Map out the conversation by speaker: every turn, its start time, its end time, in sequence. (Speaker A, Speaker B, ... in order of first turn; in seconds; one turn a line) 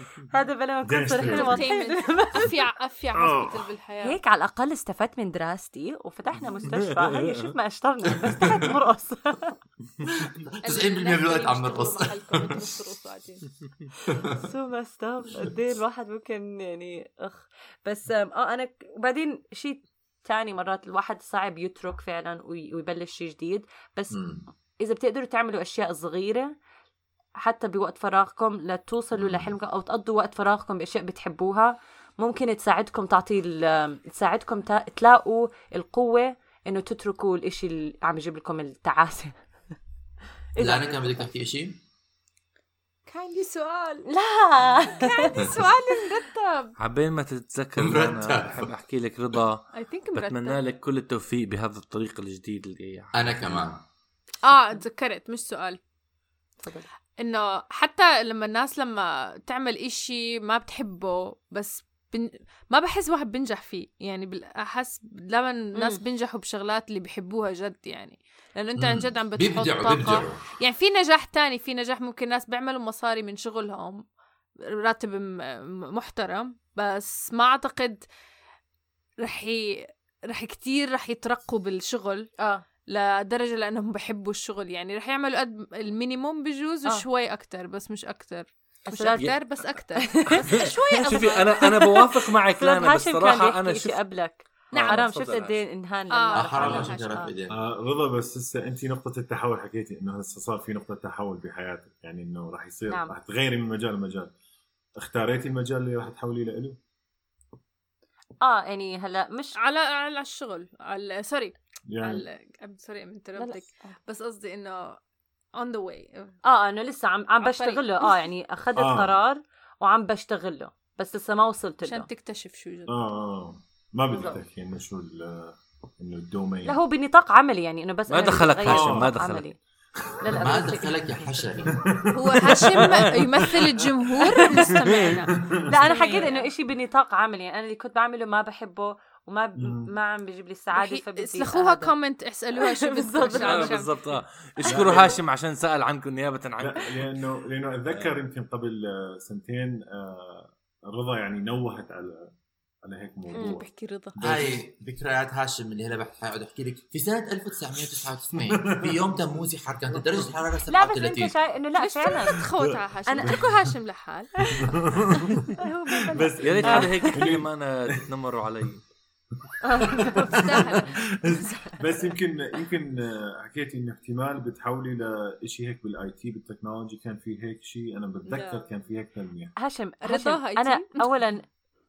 Speaker A: 0.3-2.5
Speaker B: 0.8-1.7
Speaker C: 1.1-4.2
Speaker B: 3.1-3.7
Speaker A: 4.0-9.6
Speaker D: 6.6-7.5
Speaker E: 8.2-8.7
Speaker E: 10.4-12.7
Speaker C: 10.6-13.5
Speaker A: 14.2-24.2
Speaker E: 24.1-24.4
Speaker A: 24.8-26.5
Speaker A: 27.4-39.4
Speaker E: 29.1-29.5
Speaker A: 40.5-41.3
Speaker E: 40.6-41.8
Speaker C: 43.1-44.1
Speaker A: 44.1-46.1
Speaker C: 44.9-46.8
Speaker D: 46.8-53.6
Speaker E: 47.8-48.7
Speaker C: 49.7-50.6
Speaker E: 53.1-53.8
Speaker C: 54.4-55.8
Speaker C: 57.2-74.0
Speaker A: 65.8-66.0
Speaker E: 68.8-70.4
Speaker C: 74.8-78.1
Speaker C: 79.2-79.8
Speaker C: 80.3-82.3
Speaker A: 82.4-82.6
Speaker C: 82.9-91.8
Speaker A: 88.9-89.2
Speaker A: 90.0-90.7
Speaker D: 90.4-94.0
Speaker A: 91.7-97.3
Speaker D: 94.7-95.6
Speaker C: 94.7-95.0
Speaker C: 96.1-97.2
Speaker E: 96.3-97.6
Speaker B: 97.5-104.3
Speaker B: 105.0-106.8
Speaker A: 108.4-109.6
Speaker C: 109.6-115.0
Speaker B: 111.9-112.3
Speaker A: 113.4-113.9
Speaker C: 115.5-116.3
Speaker A: 116.5-122.1
Speaker C: 117.4-118.2
Speaker B: 118.8-119.2
Speaker C: 121.8-123.0
Speaker B: 122.9-126.8
Speaker A: 124.1-124.4
Speaker A: 126.7-129.6
Speaker D: 128.1-129.5
Speaker B: 128.7-129.1
Speaker A: 130.2-130.9
Speaker B: 130.3-130.6
Speaker E: 130.3-131.8
Speaker B: 131.6-135.7
Speaker C: 132.1-135.3
Speaker D: 132.8-133.4
Speaker A: 134.3-134.8
Speaker A: 135.7-141.9
Speaker C: 135.9-136.5
Speaker B: 139.6-139.9
Speaker C: 140.8-144.0
Speaker A: 142.6-143.8
Speaker D: 143.3-147.2
Speaker B: 144.7-145.2
Speaker B: 146.6-154.6
Speaker D: 147.8-148.2
Speaker A: 153.3-153.6
Speaker C: 153.3-154.2
Speaker E: 154.2-161.3
Speaker B: 158.3-159.2
Speaker B: 159.9-160.3
Speaker A: 160.7-162.4
Speaker C: 161.8-164.5
Speaker B: 162.4-163.6
Speaker A: 163.1-163.4
Speaker A: 164.4-164.8
Speaker B: 164.6-168.0
Speaker A: 165.6-167.3
Speaker D: 166.4-168.8
Speaker B: 169.4-170.8
Speaker A: 169.6-170.4
Speaker C: 170.0-171.8
Speaker E: 170.8-171.4
Speaker A: 171.5-171.8
Speaker B: 171.8-179.6
Speaker C: 178.3-178.7
Speaker A: 179.6-181.4
Speaker C: 180.0-181.2